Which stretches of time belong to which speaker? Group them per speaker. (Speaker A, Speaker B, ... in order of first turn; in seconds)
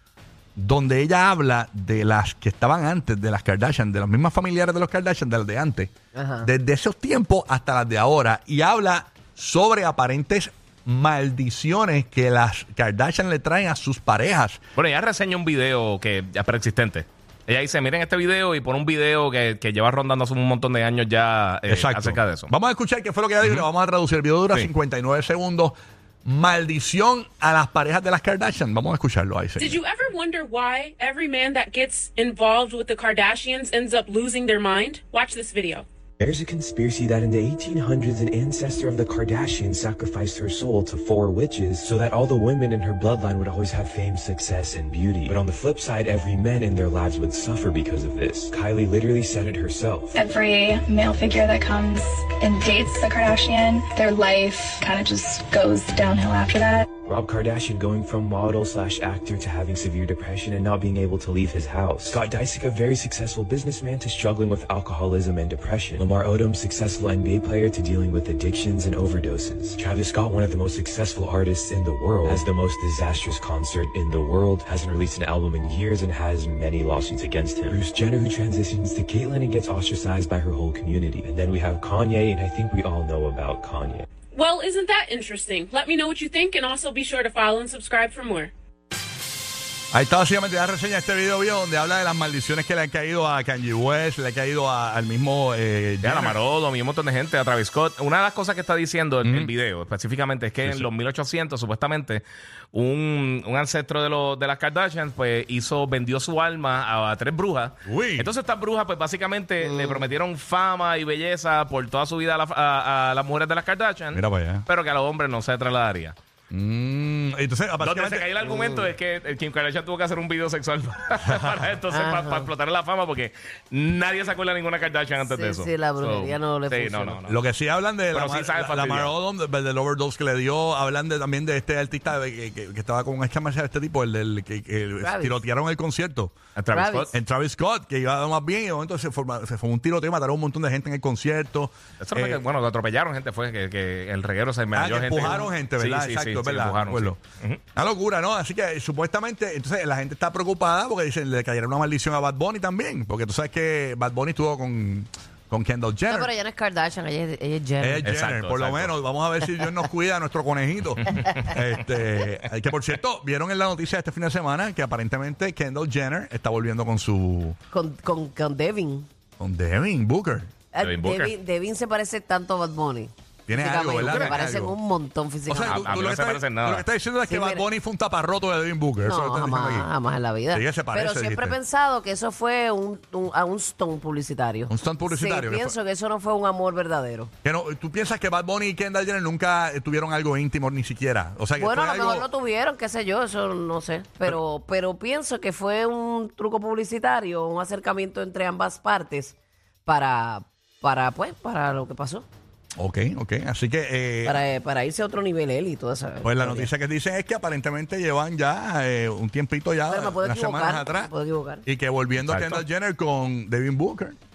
Speaker A: 0.6-5.9, 6.4-14.6, 21.7-29.8, 89.9-96.4, 99.2-99.5, 100.6-100.9, 107.8-108.3, 114.1-114.7, 116.5-118.3, 127.3-136.3, 137.1-142.4, 144.7-147.2, 147.8-156.3, 157.8-167.6, 169.4-170.5, 173.5-174.8, 175.5-179.9, 180.5-181.6, 184.7-185.8, 187.4-192.3, 202.8-204.4, 206.2-211.1, 211.7-214.2
Speaker B: 6.2-6.5, 118.5-118.9, 121.9-122.5, 125.2-127.2, 135.0-135.4, 136.7-137.1, 156.1-158.1, 167.7-169.1, 170.7-175.8, 177.3-177.7, 179.0-187.3, 191.6-202.3, 204.3-206.7, 209.9-211.7
Speaker C: 14.8-22.5, 96.0-116.2, 117.8-127.4, 128.1-129.1, 136.6-137.2, 142.0-147.6, 158.0-159.0, 170.8-171.3, 174.1-174.4, 175.7-176.9, 212.3-212.6
Speaker D: 29.6-35.9, 84.3-88.5
Speaker E: 36.2-50.1, 57.0-84.1
Speaker F: 50.1-56.9